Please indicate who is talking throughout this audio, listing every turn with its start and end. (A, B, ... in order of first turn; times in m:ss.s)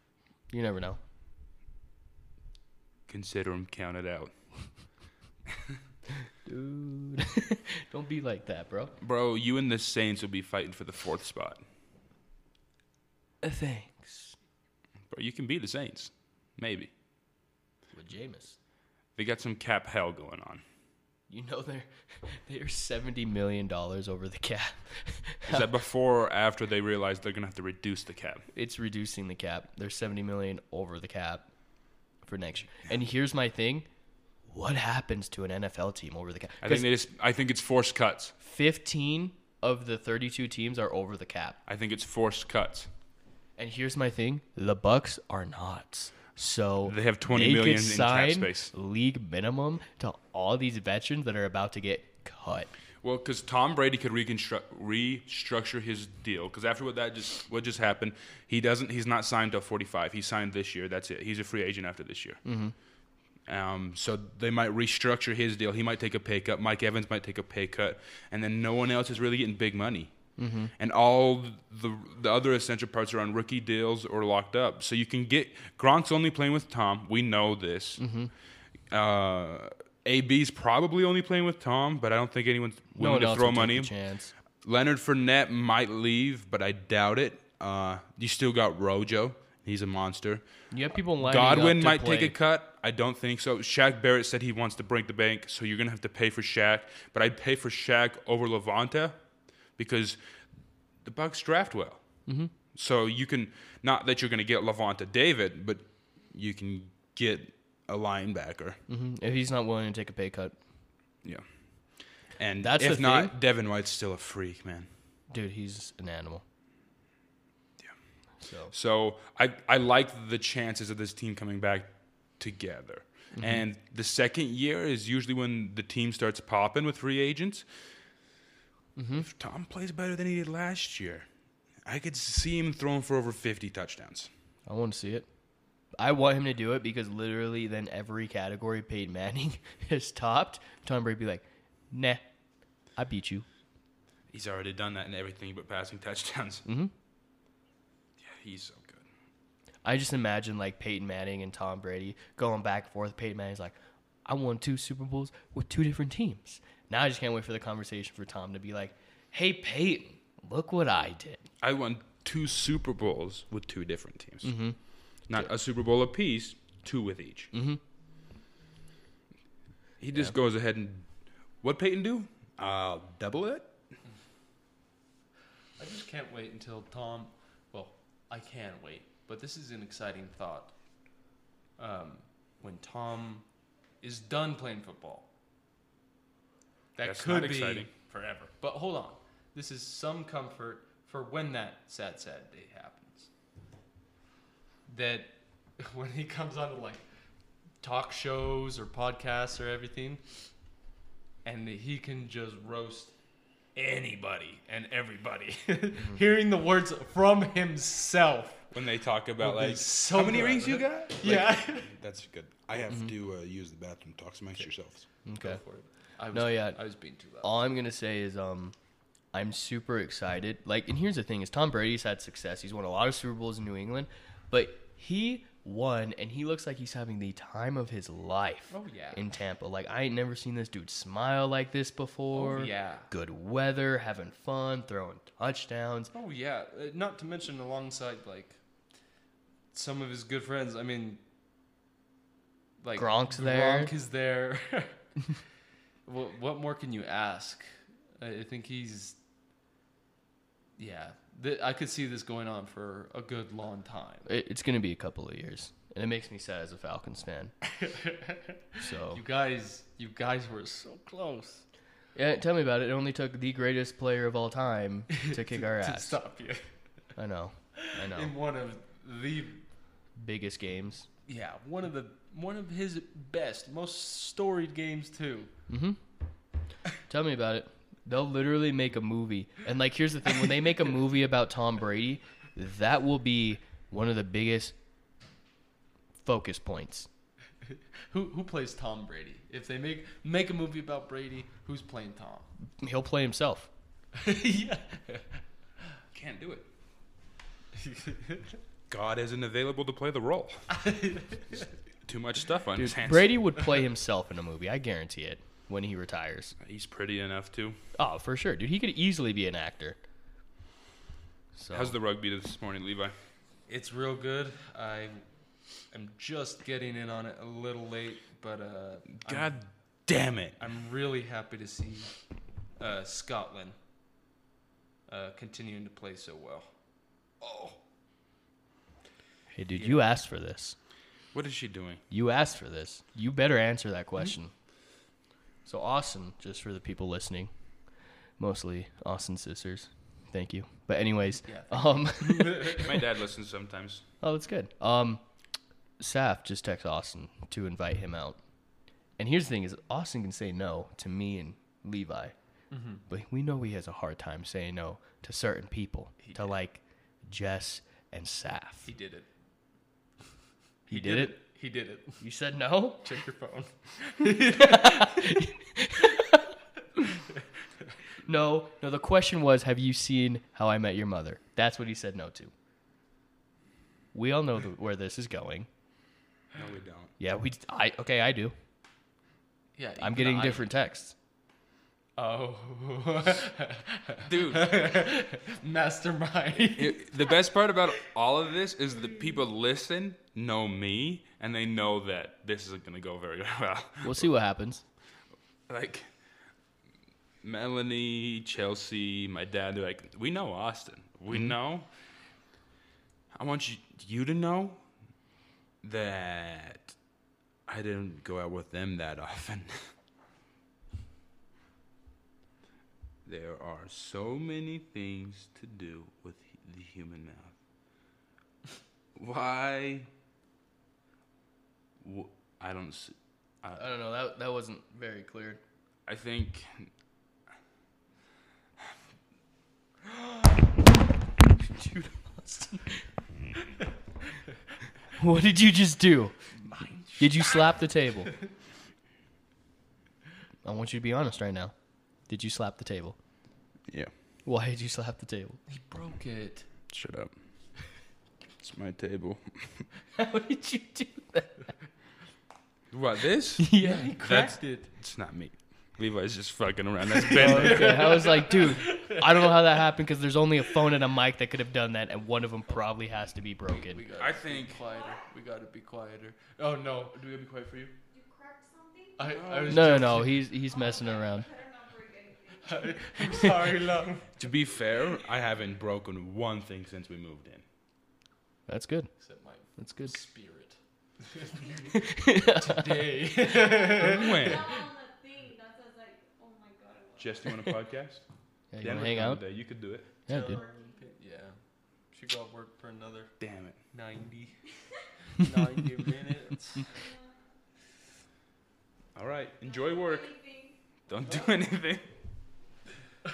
0:00.5-0:01.0 A
0:03.1-0:04.3 B
0:06.4-0:08.9 A
0:09.0-0:11.6 B
0:13.4-0:14.4 A
0:15.1-0:16.9 B
0:17.9-0:18.6 A
0:19.2-0:20.6 B
0:21.3-0:25.7 A
0:25.4-0:28.4 B
0:28.5-0:31.5 A
0:32.2-0:33.9 A
0:34.5-0:36.9 A
0:36.6-0:38.3 B
0:38.4-0:41.6 A
0:41.7-0:42.9 B
0:43.6-0:52.7 A
0:46.9-0:48.7 B
0:53.0-1:02.4 B
1:02.4-1:02.7 A
1:03.5-1:10.1 B
1:10.4-1:10.7 A
1:10.8-1:18.0 B
1:18.0-1:18.3 A
1:18.9-1:23.9 B
1:23.0-1:24.3 A
1:24.6-1:30.4 B
1:30.7-1:32.3 A
1:31.2-1:39.2 B
1:39.8-1:40.2 B
1:41.0-1:42.0 B
1:42.3-1:42.5 A
1:42.7-1:48.8 B
1:48.9-1:50.6 A
1:52.4-1:54.9 B
1:52.6-1:53.3 A
1:55.3-1:56.4 A
1:58.4-1:58.7 A
1:58.7-2:07.6 B
2:03.3-2:03.6 A
2:09.0-2:09.3 A
2:09.2-2:11.3 B
2:11.8-2:14.3 B
2:14.6-2:15.3 A
2:16.0-2:22.2 A
2:23.0-2:23.4 A
2:24.3-2:26.6 B
2:26.6-2:26.9 A
2:28.2-2:29.0 B
2:29.8-2:41.4 A
2:41.6-2:44.6 B
2:44.4-2:44.8 A
2:45.3-2:47.5 B
2:47.5-2:47.8 A
2:50.0-2:51.1 B
2:51.6-2:53.7 B
2:55.8-3:00.7 C
3:01.8-3:03.4 C
3:04.0-3:05.3 C
3:07.0-3:13.3 C
3:07.0-3:07.9 B
3:14.9-3:17.0 C
3:17.8-3:20.2 C
3:21.4-3:23.1 C
3:23.8-3:28.7 C
3:28.7-3:35.0 B
3:29.4-3:31.9 C
3:35.3-3:35.6 A
3:35.3-3:37.6 C
3:36.3-3:36.8 A
3:37.4-3:38.7 A
3:39.3-3:56.1 A
3:48.7-3:49.2 C
3:52.3-3:53.1 C
3:56.1-3:58.6 C
3:59.7-4:01.2 C
4:02.8-4:05.0 C
4:03.0-4:03.9 A
4:06.0-4:09.2 C
4:10.8-4:14.3 C
4:14.3-4:17.5 A
4:17.7-4:21.6 C
4:18.8-4:19.2 A
4:22.1-4:26.2 A
4:25.1-4:26.7 C
4:27.2-4:28.3 A
4:27.8-4:29.6 C
4:30.2-4:31.1 A
4:31.3-4:35.5 C
4:35.7-4:36.0 A
4:37.1-4:44.7 A
4:46.2-4:47.1 A
4:48.1-4:52.5 C
4:52.8-4:53.7 A
4:54.1-4:55.4 C
4:56.1-4:56.7 B
4:57.8-4:58.6 C
4:58.9-5:00.7 B
5:00.7-5:01.7 C
5:02.0-5:03.3 B
5:02.8-5:06.6 A
5:06.6-5:07.8 B
5:08.0-5:10.0 A
5:11.6-5:12.0 A
5:11.7-5:13.1 B
5:13.7-5:15.3 C
5:15.9-5:19.6 C
5:19.2-5:20.6 B
5:20.6-5:22.1 C
5:22.8-5:23.8 C
5:25.1-5:26.7 C
5:27.4-5:27.8 C
5:29.5-5:30.8 A
5:31.3-5:32.0 B
5:32.1-5:34.5 A
5:35.6-5:37.5 A
5:38.4-5:43.0 A
5:41.5-5:42.9 C
5:42.5-5:44.0 B
5:44.2-5:45.2 A
5:46.0-5:48.4 A
5:49.2-5:52.3 A
5:52.7-5:53.0 C
5:53.1-5:58.9 A
5:56.2-5:56.4 C
5:58.8-5:59.3 C
6:00.9-6:01.4 A
6:00.9-6:02.2 C
6:02.2-6:03.0 A
6:03.0-6:05.4 C
6:04.5-6:06.5 A
6:08.2-6:12.5 A
6:14.1-6:15.7 A
6:16.5-6:17.1 B
6:17.2-6:18.5 A
6:19.8-6:20.7 C
6:20.0-6:21.1 A
6:22.2-6:27.1 C
6:24.2-6:24.8 B
6:26.7-6:34.3 B
6:34.0-6:34.8 A
6:35.7-6:36.1 B
6:37.4-6:41.9 B
6:43.3-6:44.8 B
6:45.8-6:47.0 B
6:47.7-6:49.9 B
6:53.2-6:57.5 B
6:59.2-7:00.1 B
7:02.0-7:03.9 B
7:03.8-7:05.6 A
7:06.0-7:06.9 B
7:11.6-7:13.0 A
7:15.2-7:16.4 A
7:16.6-7:17.7 C
7:17.2-7:18.4 A
7:20.6-7:21.7 A
7:22.3-7:23.2 A
7:24.4-7:25.6 A
7:25.7-7:26.6 C
7:26.9-7:27.3 B
7:28.6-7:29.9 B
7:30.2-7:31.7 A
7:32.9-7:38.1 B
7:33.6-7:34.2 A
7:33.8-7:34.9 C
7:37.2-7:39.8 C
7:37.3-7:44.0 A
7:43.7-7:47.4 C
7:44.2-7:44.8 B
7:44.8-7:45.2 D
7:47.2-7:47.9 B
7:48.1-7:49.5 D
7:49.2-7:50.4 C
7:49.3-7:50.2 B
7:49.7-7:51.4 A
7:50.6-7:53.6 D
7:52.6-7:54.3 C
7:54.4-7:57.6 B
7:58.7-7:59.1 A
7:59.2-8:04.6 C
7:59.8-8:00.1 A
8:01.9-8:03.0 A
8:03.4-8:07.8 D
8:04.0-8:04.8 B
8:07.2-8:08.2 B
8:08.7-8:09.4 A
8:08.8-8:10.1 B
8:10.3-8:10.6 A
8:10.3-8:11.6 C
8:10.4-8:11.1 D
8:12.1-8:13.3 C
8:13.4-8:13.8 B
8:13.9-8:14.6 C
8:15.4-8:16.9 C
8:16.8-8:17.4 D
8:19.1-8:20.3 B
8:19.6-8:20.8 D
8:21.1-8:22.1 B